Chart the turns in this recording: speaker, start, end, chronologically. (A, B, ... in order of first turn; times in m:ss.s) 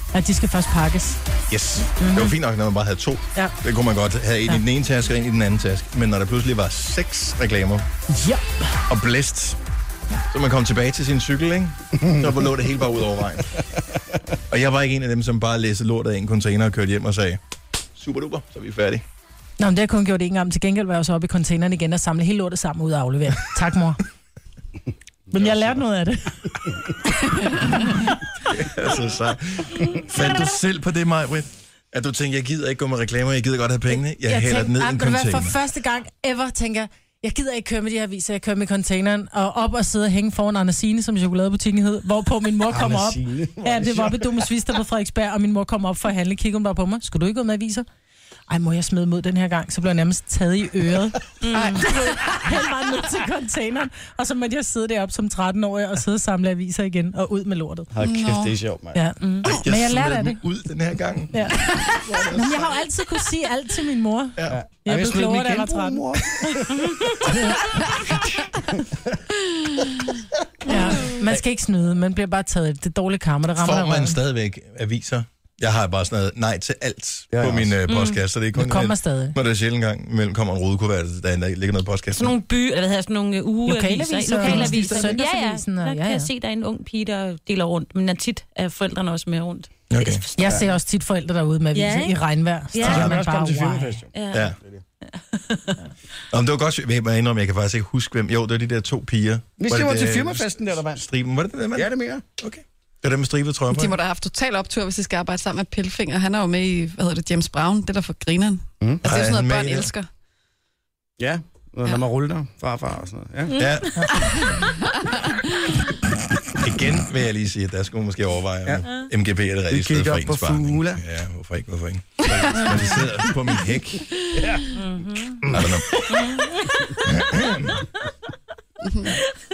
0:00.1-0:01.2 A
0:01.5-0:07.8 B
0:02.0-0:02.3 A
0:08.1-0:08.7 A
0:08.9-0:09.6 B
0:10.3-0:13.5 B
0:14.5-0:17.4 B
0:18.0-0:19.0 B
0:19.6-0:24.0 A
0:25.3-0:26.4 A
0:28.5-0:35.6 B
0:33.9-0:47.8 A
0:42.7-0:44.5 C
0:48.5-0:57.9 A
0:51.4-0:51.9 D
0:51.6-0:52.0 C
0:57.9-0:59.0 C
0:58.0-0:58.6 E
0:58.9-1:00.4 A
0:59.4-1:01.4 B
1:01.3-1:06.0 A
1:04.5-1:06.7 C
1:10.6-1:14.2 A
1:13.6-1:22.4 B
1:17.3-1:17.8 C
1:17.9-1:18.2 D
1:18.5-1:19.4 A
1:22.1-1:30.5 D
1:23.6-1:26.3 A
1:24.4-1:25.1 B
1:29.9-1:30.2 B
1:30.4-1:34.0 A
1:31.7-1:32.2 D
1:32.7-1:33.1 D
1:32.8-1:34.1 C
1:32.8-1:33.1 B
1:34.1-1:34.5 D
1:34.3-1:34.6 B
1:35.1-1:35.8 D
1:36.3-1:44.0 B
1:39.6-1:41.0 C
1:41.7-1:42.2 C
1:43.7-1:50.1 E
1:48.8-1:49.1 C
1:49.0-1:49.9 B
1:51.2-1:53.6 C
1:53.6-1:54.4 B
1:56.6-2:04.1 B
1:59.7-2:01.0 C
2:02.6-2:02.9 C
2:04.3-2:04.6 C
2:04.7-2:05.4 D
2:05.4-2:05.8 C
2:05.5-2:06.3 B
2:07.0-2:07.8 B
2:08.8-2:09.1 E